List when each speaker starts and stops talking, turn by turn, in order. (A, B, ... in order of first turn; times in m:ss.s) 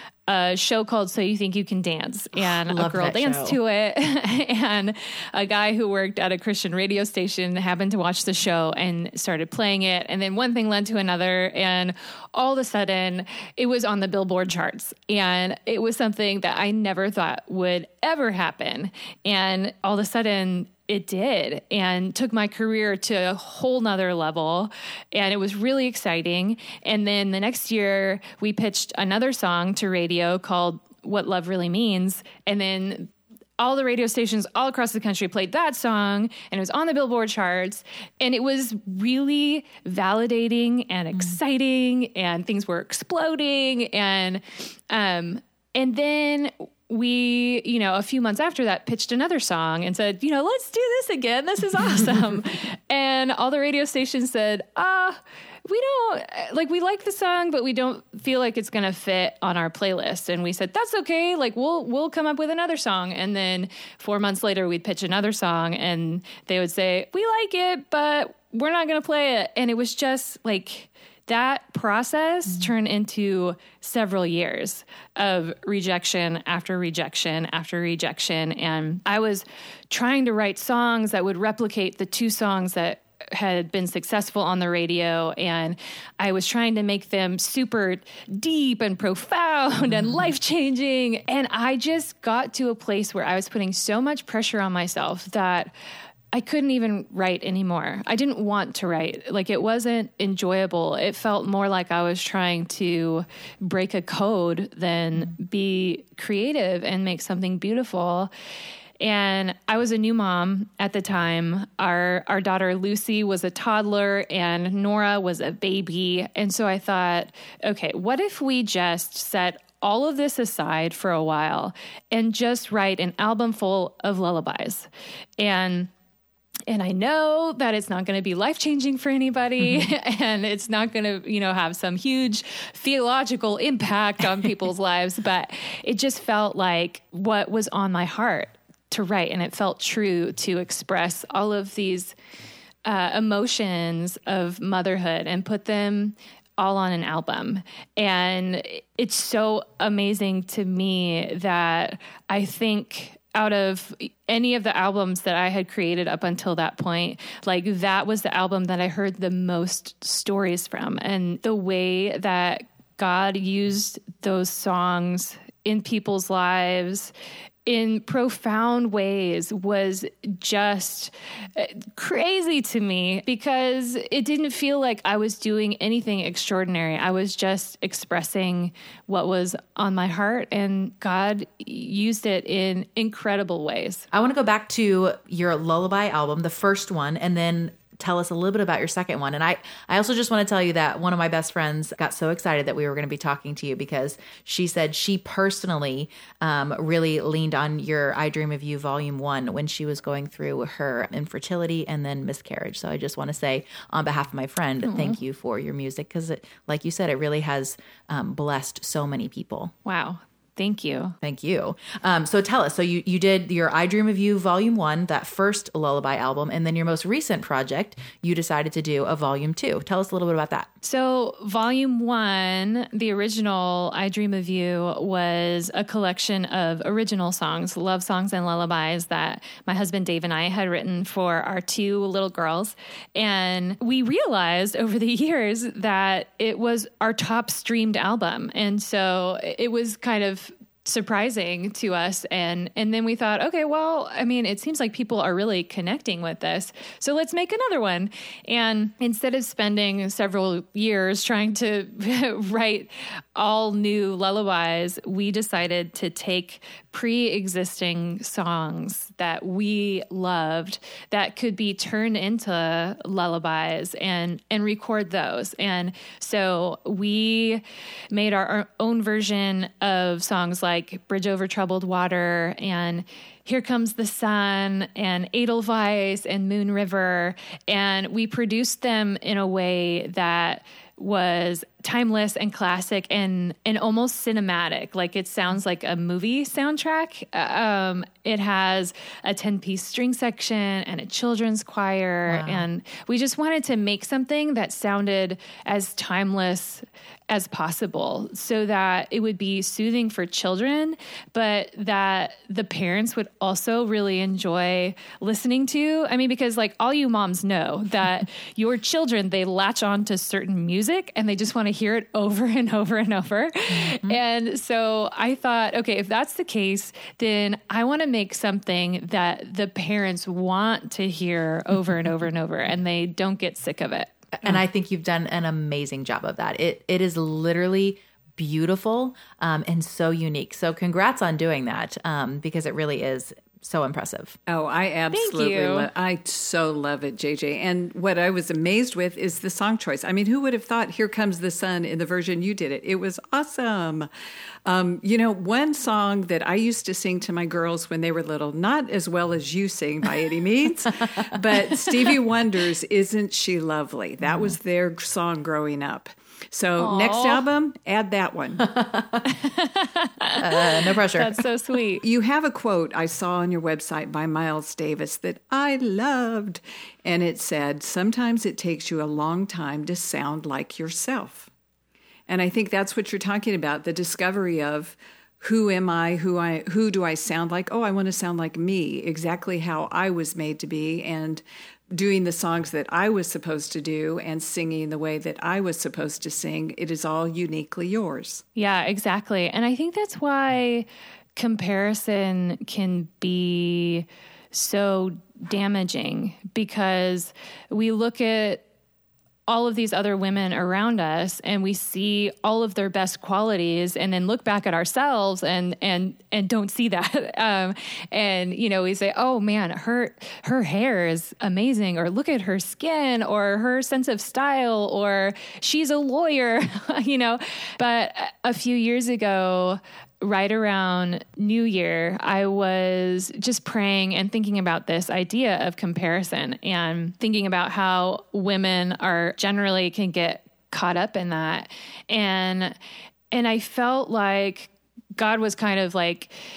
0:00.3-1:35.7 A
0:02.4-0:03.6 B
1:36.3-1:48.3 A
1:49.0-2:05.9 A
2:06.7-2:22.1 A
2:22.8-2:47.1 A
2:47.6-3:04.0 A
3:04.1-3:29.7 B
3:24.8-3:25.2 A
3:29.8-3:31.1 A
3:31.2-3:40.7 B
3:40.8-5:24.1 A
4:52.3-4:52.7 B
5:13.7-5:14.2 B
5:24.4-5:34.4 B
5:34.5-5:44.1 C
5:35.1-5:35.9 A
5:44.6-5:58.7 C
5:56.8-5:57.4 A
5:58.6-5:59.3 B
5:59.3-6:02.0 A
6:00.4-6:01.4 B
6:02.0-6:11.5 C
6:12.3-6:28.4 C
6:28.6-6:38.6 A
6:39.5-7:12.8 A
7:13.3-7:16.3 A